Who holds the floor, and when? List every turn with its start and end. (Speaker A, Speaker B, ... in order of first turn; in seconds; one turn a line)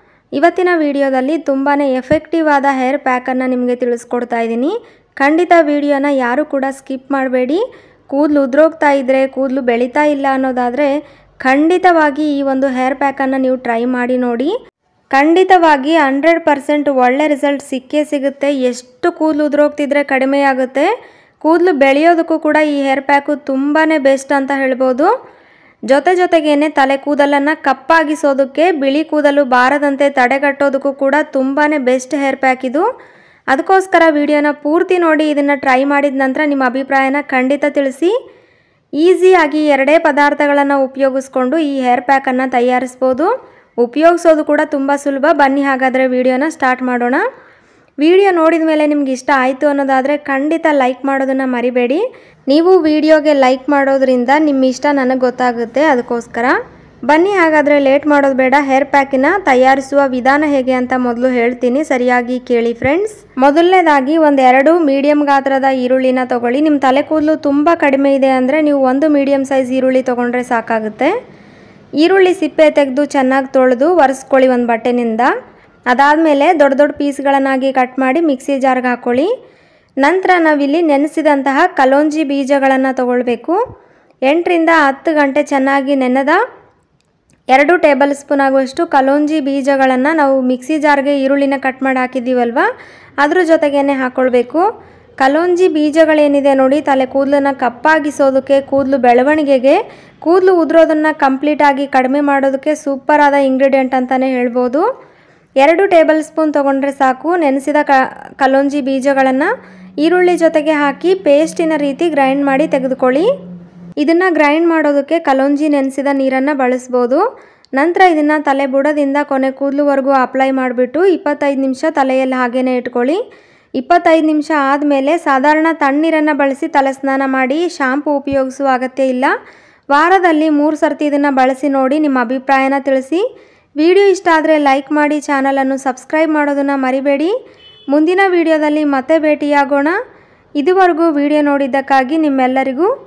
Speaker A: 0.4-7.6
Speaker A: 8.1-10.9
Speaker A: 11.4-14.5
Speaker A: 15.2-20.9
Speaker A: 21.4-25.1
Speaker A: 25.9-32.9
Speaker A: 33.5-38.1
Speaker A: 39.0-43.3
Speaker A: 43.8-47.2
Speaker A: 48.0-56.5
Speaker A: 57.1-71.1
Speaker A: 72.0-75.3
Speaker A: 75.9-79.3
Speaker A: 80.0-83.6
Speaker A: 84.3-86.4
Speaker A: 87.5-92.7
Speaker A: 93.2-94.7
Speaker A: 95.2-104.9
Speaker A: 105.6-109.5
Speaker A: 110.0-113.3
Speaker A: 114.0-117.2
Speaker A: 117.8-123.2
Speaker A: 123.8-129.3
Speaker A: 129.9-133.2
Speaker A: 133.8-137.3
Speaker A: 137.9-139.9
Speaker A: 140.6-142.9